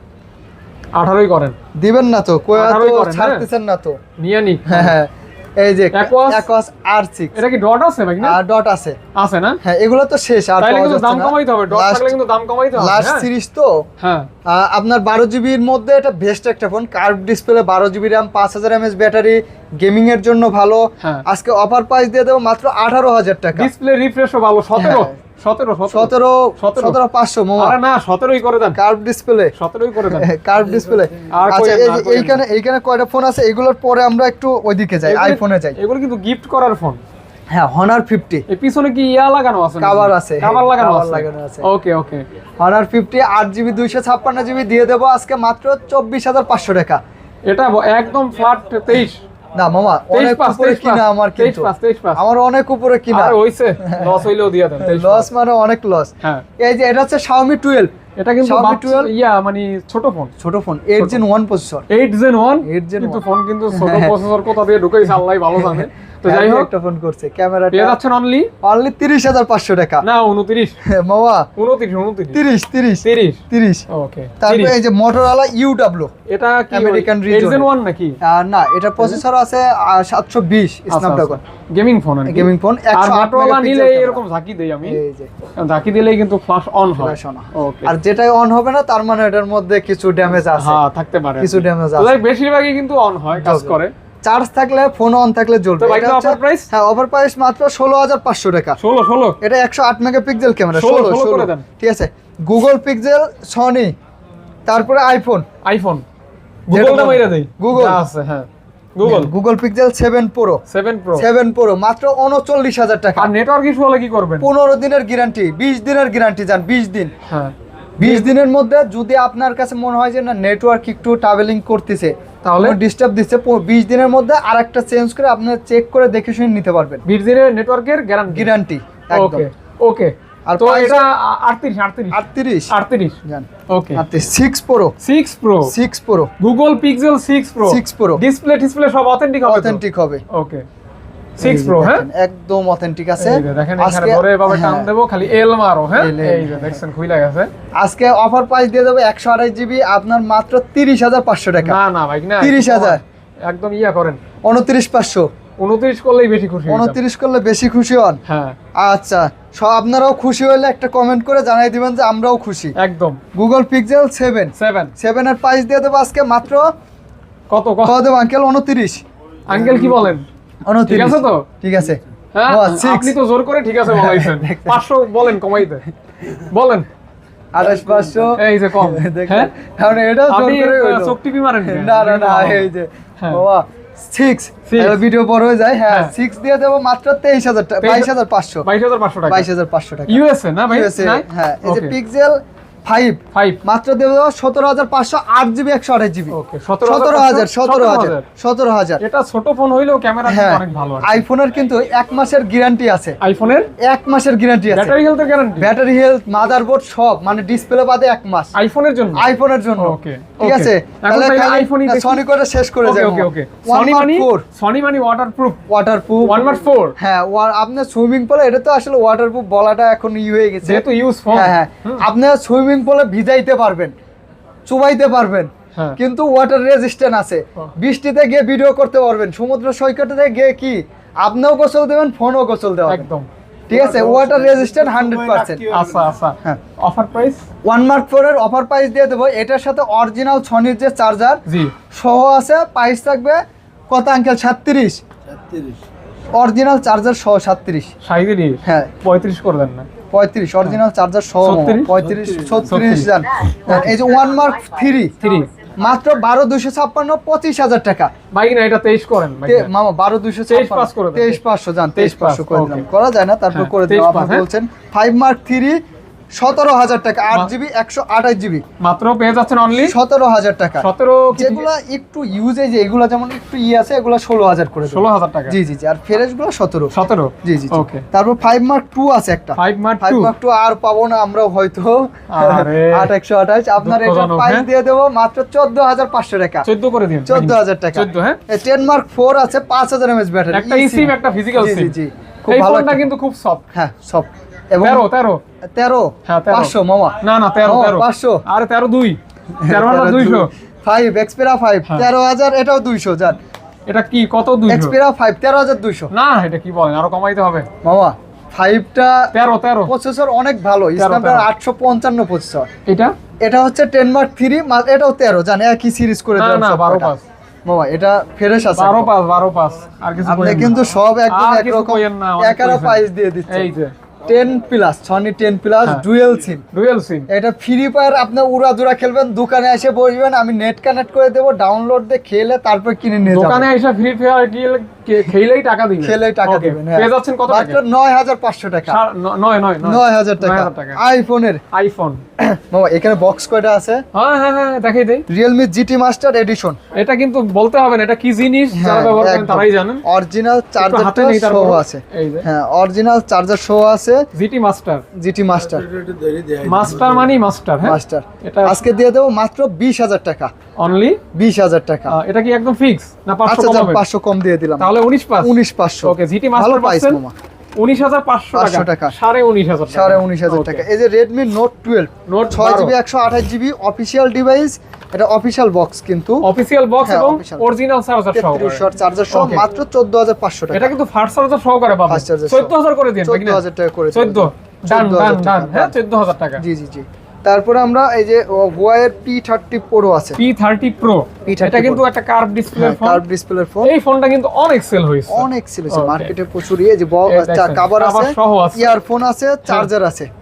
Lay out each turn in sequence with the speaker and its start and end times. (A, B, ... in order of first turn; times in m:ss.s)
0:00.9-0:01.6 A
0:01.7-0:04.0 B
0:02.5-0:03.4 A
0:04.2-0:04.9 A
0:04.7-0:07.4 B
0:05.9-0:06.5 A
0:07.3-0:08.4 A
0:08.2-0:09.0 B
0:09.1-0:09.6 A
0:09.6-0:12.2 B
0:10.6-0:13.3 A
0:12.7-0:13.8 B
0:14.0-0:14.3 A
0:14.4-0:23.7 B
0:23.6-0:27.0 A
0:24.8-0:25.1 B
0:25.9-0:27.8 B
0:27.6-0:28.8 A
0:28.7-0:29.5 B
0:29.5-0:30.3 A
0:30.1-0:35.8 B
0:31.3-0:32.4 A
0:35.0-0:37.0 A
0:37.5-0:38.4 B
0:38.5-0:42.2 A
0:39.8-0:41.6 B
0:42.6-0:47.0 B
0:47.5-0:49.2 A
0:49.6-0:54.2 B
0:50.1-0:52.2 A
0:53.1-0:55.3 A
0:54.8-0:59.1 B
0:58.2-1:00.3 A
1:00.4-1:01.8 B
1:01.9-1:06.7 A
1:02.6-1:04.2 B
1:05.6-1:08.0 B
1:07.7-1:08.5 A
1:08.6-1:10.0 B
1:10.0-1:10.8 A
1:10.8-1:11.5 B
1:11.6-1:12.4 A
1:12.3-1:13.8 B
1:13.0-1:14.8 A
1:14.4-1:16.1 B
1:16.3-1:18.2 A
1:16.7-1:17.7 B
1:18.2-1:21.4 B
1:20.9-1:25.0 A
1:22.2-1:24.2 B
1:24.8-1:25.3 B
1:25.6-1:27.9 A
1:27.0-1:30.8 B
1:30.5-1:33.9 A
1:31.4-1:32.2 B
1:33.3-1:38.8 B
1:35.8-1:36.7 A
1:38.8-1:39.4 A
1:39.4-1:43.9 B
1:40.7-1:41.6 A
1:44.6-1:45.4 B
1:45.6-1:46.0 A
1:46.7-1:49.3 A
1:46.7-1:48.0 B
1:49.0-1:50.6 B
1:50.7-1:51.3 A
1:51.2-1:53.3 B
1:53.2-1:54.5 A
1:54.4-1:57.1 B
1:57.3-1:58.3 A
1:58.0-2:07.0 B
2:02.4-2:02.8 A
2:07.0-2:08.5 A
2:08.3-2:09.4 B
2:09.1-2:13.2 A
2:10.5-2:11.1 B
2:12.1-2:12.7 B
2:13.2-2:14.9 B
2:13.7-2:14.0 A
2:15.0-2:15.7 A
2:15.6-2:16.3 B
2:16.4-2:20.6 A
2:17.6-2:18.2 B
2:19.4-2:20.2 B
2:21.4-2:22.1 A
2:21.4-2:24.9 B
2:23.2-2:27.5 A
2:25.9-2:26.8 B
2:27.8-2:31.8 B
2:31.6-2:34.2 A
2:32.4-2:33.0 B
2:34.4-2:35.3 B
2:35.6-2:37.0 A
2:36.7-2:38.2 B
2:38.2-2:38.6 A
2:38.8-2:42.7 B
2:42.8-2:43.2 A
2:43.3-2:46.7 B
2:44.6-2:44.9 A
2:47.5-2:48.0 A
2:47.8-2:53.2 B
2:49.5-2:50.3 A
2:50.8-2:51.4 A
2:52.3-2:56.9 A
2:53.8-2:54.8 B
2:57.5-3:08.6 B
2:58.3-2:59.5 A
3:00.3-3:03.4 A
3:04.6-3:05.0 A
3:07.8-3:08.1 A
3:08.6-3:09.5 A
3:09.3-3:19.0 B
3:10.1-3:11.9 A
3:13.3-3:13.6 A
3:16.3-3:18.2 A
3:19.0-3:21.2 A
3:20.2-3:23.2 B
3:23.2-3:23.7 A
3:23.8-3:25.0 B
3:24.7-3:25.7 A
3:25.6-3:28.5 B
3:28.5-3:32.2 A
3:29.1-3:34.4 B
3:32.8-3:35.6 A
3:35.7-3:36.4 B
3:36.2-3:37.0 A
3:37.0-3:43.9 B
3:40.6-3:42.0 A
3:44.7-3:53.1 B
3:52.9-3:53.3 A
3:53.7-3:55.6 B
3:53.7-3:56.1 C
3:55.7-3:57.4 A
3:57.6-4:05.0 B
4:01.4-4:01.7 A
4:05.2-4:05.8 C
4:06.3-4:07.9 B
4:08.0-4:09.9 A
4:08.6-4:08.9 B
4:10.1-4:15.2 B
4:11.4-4:12.0 A
4:11.9-4:12.9 C
4:12.7-4:13.1 A
4:13.7-4:13.9 A
4:15.2-4:15.5 A
4:15.8-4:18.1 B
4:18.3-4:19.7 A
4:19.4-4:25.8 B
4:20.5-4:21.4 A
4:22.0-4:22.8 A
4:23.5-4:24.4 A
4:26.4-4:28.6 B
4:28.8-4:30.0 A
4:29.8-4:36.9 B
4:30.8-4:31.6 A
4:34.8-4:35.6 A
4:36.9-4:38.0 A
4:37.4-4:46.7 B
4:39.6-4:40.3 A
4:42.3-4:43.1 A
4:43.8-4:44.7 A
4:46.6-4:48.4 A
4:47.2-4:53.1 B
4:50.5-4:51.9 A
4:52.5-4:53.6 A
4:53.7-4:55.0 B
4:54.8-4:55.4 A
4:55.6-4:58.4 B
4:56.2-5:00.5 A
4:59.5-5:03.4 B
5:03.9-5:04.9 A
5:04.7-5:06.1 B
5:06.1-5:07.7 A
5:07.8-5:09.3 B
5:09.3-5:09.9 A
5:09.9-5:12.7 B
5:11.0-5:11.5 A
5:12.9-5:13.1 A
5:13.4-5:17.1 B
5:16.4-5:17.2 A
5:17.6-5:19.1 B
5:18.8-5:23.9 A
5:20.2-5:23.7 B
5:24.2-5:26.6 B
5:26.7-5:27.3 A
5:27.3-5:33.7 B
5:33.2-5:37.8 A
5:36.0-5:39.0 B
5:38.9-5:41.0 A
5:39.8-5:41.6 B
5:41.7-5:42.2 A
5:42.4-5:44.0 B
5:44.1-5:45.2 A
5:45.3-5:46.8 B
5:46.9-5:50.0 A
5:48.7-5:54.3 B
5:50.8-5:52.4 A
5:54.3-5:55.0 A
5:55.1-5:55.8 B
5:55.7-5:57.4 C
5:56.6-5:58.8 A
5:57.8-6:00.5 B
6:00.8-6:01.2 A
6:01.3-6:02.2 B
6:02.1-6:04.0 A
6:03.4-6:07.3 B
6:04.8-6:07.2 A
6:07.8-6:10.8 A
6:08.5-6:09.1 B
6:09.9-6:16.4 B
6:12.3-6:12.9 A
6:16.4-6:19.6 A
6:17.0-6:17.7 B
6:18.3-6:20.9 B
6:20.7-6:23.6 A
6:22.1-6:25.9 B
6:24.1-6:26.6 A
6:26.6-6:30.4 B
6:30.4-6:33.2 A
6:31.4-6:32.0 B
6:32.7-6:33.9 B
6:33.8-6:36.3 A
6:35.3-6:40.3 B
6:37.3-6:38.9 A